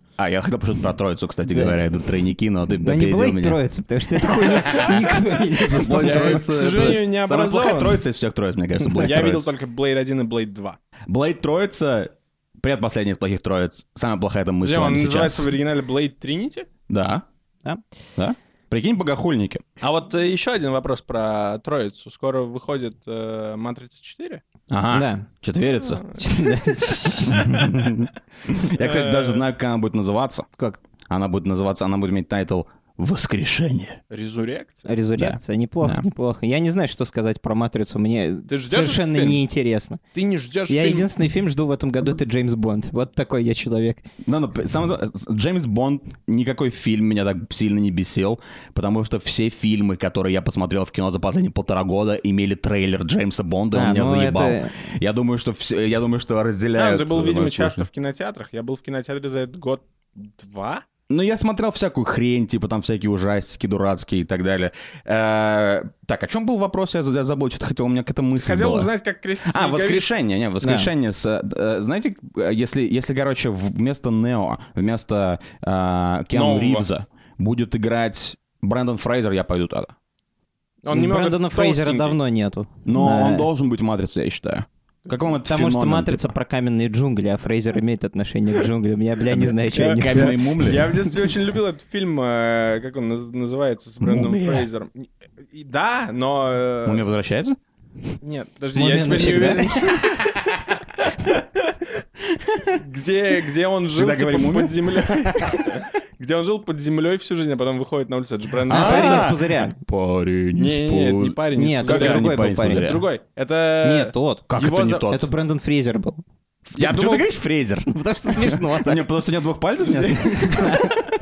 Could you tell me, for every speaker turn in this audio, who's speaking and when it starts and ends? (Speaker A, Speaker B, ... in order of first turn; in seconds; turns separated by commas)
Speaker A: 0.2-3.6, Speaker B: 2.8-6.9, Speaker A: 4.5-5.1, Speaker A: 5.7-9.5, Speaker C: 5.9-8.0, Speaker C: 8.9-10.8, Speaker A: 11.1-15.5, Speaker C: 14.6-16.7, Speaker A: 16.9-17.2, Speaker A: 18.2-19.6, Speaker C: 19.8-24.4, Speaker A: 24.7-26.1, Speaker B: 24.9-25.3, Speaker C: 26.0-27.0, Speaker B: 26.2-27.6, Speaker A: 27.2-30.5, Speaker C: 28.8-29.4, Speaker A: 31.1-34.0, Speaker C: 34.1-34.9, Speaker B: 34.9-40.0, Speaker A: 35.2-36.0, Speaker C: 38.5-39.4, Speaker C: 40.1-41.1, Speaker B: 40.7-44.0, Speaker A: 44.2-57.9, Speaker B: 53.7-54.7, Speaker C: 56.8-60.9, Speaker A: 61.1-68.9, Speaker C: 68.4-70.1, Speaker A: 69.5-79.9, Speaker B: 70.6-70.9, Speaker C: 76.3-76.9, Speaker C: 80.8-82.2, Speaker B: 80.9-83.5, Speaker A: 82.9-86.3, Speaker B: 85.5-90.4, Speaker A: 89.3-91.0, Speaker C: 89.8-97.0, Speaker A: 94.0-94.7, Speaker A: 96.8-97.6, Speaker C: 98.2-101.5, Speaker B: 98.8-99.8, Speaker C: 102.7-109.4, Speaker A: 103.9-105.5, Speaker A: 108.7-113.1, Speaker B: 108.7-109.8, Speaker C: 110.6-115.1, Speaker B: 111.5-112.9, Speaker B: 113.8-114.5, Speaker A: 114.5-115.3, Speaker B: 115.1-116.2, Speaker A: 116.7-121.0, Speaker C: 116.8-117.3, Speaker B: 117.9-119.1, Speaker B: 120.3-120.9